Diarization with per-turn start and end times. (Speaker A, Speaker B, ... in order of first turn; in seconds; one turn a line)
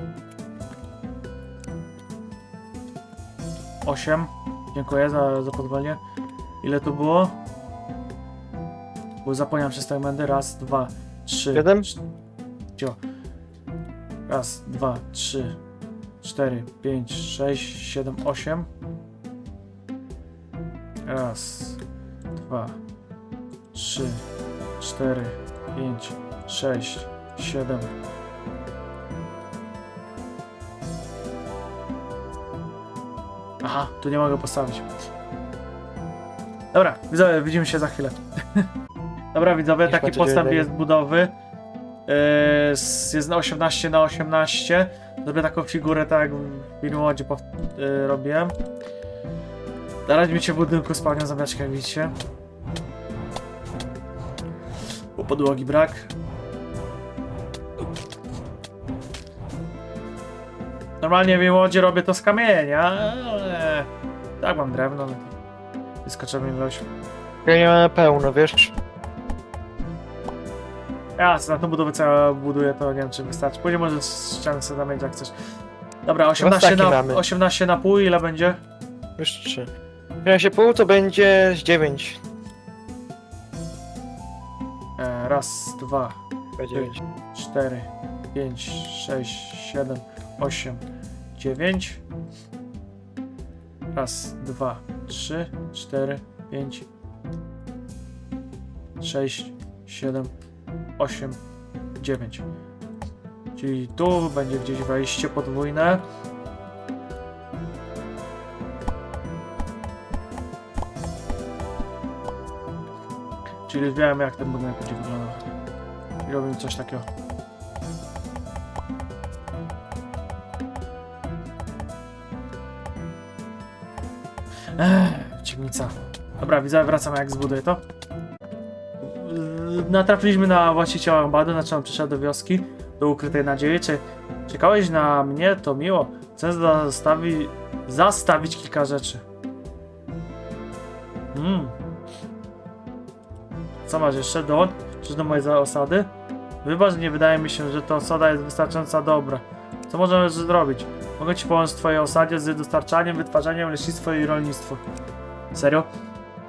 Speaker A: 3.8-6.0
Speaker A: 6.6-7.3
Speaker A: 9.2-12.0
Speaker B: 11.5-11.9
Speaker A: 14.3-15.6
Speaker A: 16.2-18.7
Speaker A: 21.1-21.8
Speaker A: 22.4-22.8
Speaker A: 23.7-24.2
Speaker A: 24.8-27.9
Speaker A: 33.6-34.9
Speaker A: 36.7-38.7
Speaker A: 39.3-41.3
Speaker B: 39.8-40.7
Speaker A: 42.1-48.5
Speaker A: 50.0-52.1
Speaker A: 55.2-56.1
Speaker A: 61.0-63.9
Speaker A: 64.4-65.3
Speaker A: 66.0-66.8
Speaker B: 67.4-68.7
Speaker A: 71.2-75.3
Speaker A: 76.0-78.6
Speaker B: 76.4-77.2
Speaker B: 79.2-79.7
Speaker B: 80.2-82.2
Speaker A: 85.0-86.2
Speaker B: 86.6-87.0
Speaker A: 86.7-90.8
Speaker A: 91.3-92.0
Speaker A: 93.9-96.9
Speaker A: 99.0-100.3
Speaker A: 101.0-101.4
Speaker A: 102.0-102.4
Speaker A: 103.5-106.0
Speaker A: 113.7-115.4
Speaker A: 116.2-117.0
Speaker A: 124.8-127.8
Speaker A: 129.0-139.2
Speaker A: 141.3-141.7
Speaker A: 143.8-146.1
Speaker A: 146.6-154.8
Speaker A: 155.5-155.9